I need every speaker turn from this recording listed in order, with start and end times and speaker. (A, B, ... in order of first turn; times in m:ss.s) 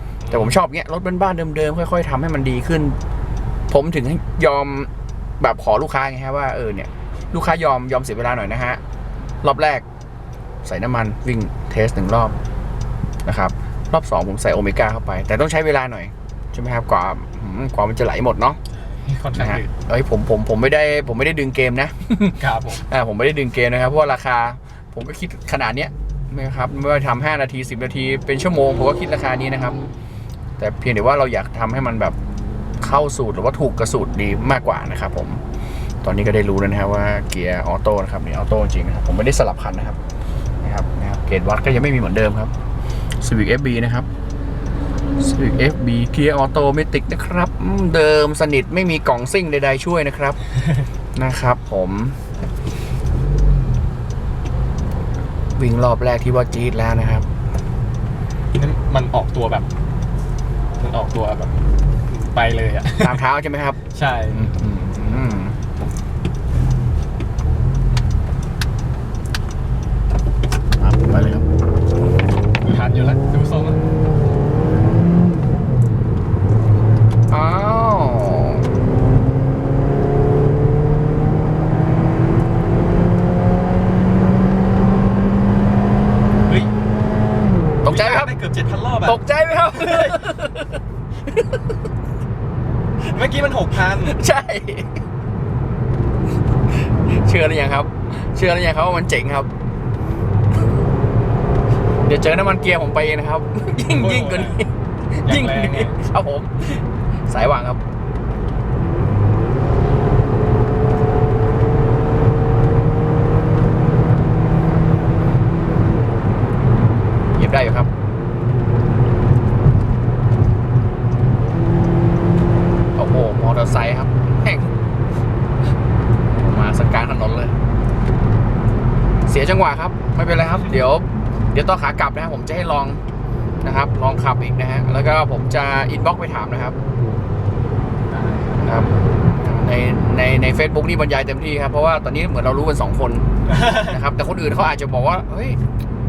0:00.2-0:00.6 A
0:00.3-0:03.0 B
0:03.7-0:08.8 B
0:09.4-0:09.8 B
0:10.6-0:12.3 B
0:13.2-0:18.6 B
0:18.8-0:19.7 A
0:19.3-0:29.8 B
0:22.4-0:22.8 A
0:30.6-0:32.2 B
0:32.8-0:35.4 B
0:36.0-0:40.0 B
0:40.6-0:42.5 B
0:43.2-0:44.1 B
0:45.2-0:50.4 B
0:51.2-0:52.2 B
0:55.6-0:57.2 B
0:58.5-0:59.7 A
1:00.8-1:03.2 A
1:03.0-1:03.8 B
1:03.9-1:04.5 A
1:04.3-1:05.6 B
1:10.8-1:11.5 B
1:12.6-1:13.8 A
1:17.3-1:18.6 B
1:27.8-1:28.3 B
1:27.8-1:30.3 A
1:29.0-1:30.8 B
1:31.3-1:31.6 B
1:33.0-1:34.2 A
1:33.9-1:34.9 B
1:36.8-1:39.5 B
1:42.0-1:47.8 B
1:43.8-1:44.6 A
1:45.2-1:46.0 A
1:57.4-1:57.9 B
2:03.0-2:04.7 B
2:06.3-2:07.6 B
2:09.2-2:13.0 B
2:13.6-2:16.8 B
2:18.1-2:19.0 A
2:18.6-2:25.6 B
2:23.4-2:24.0 A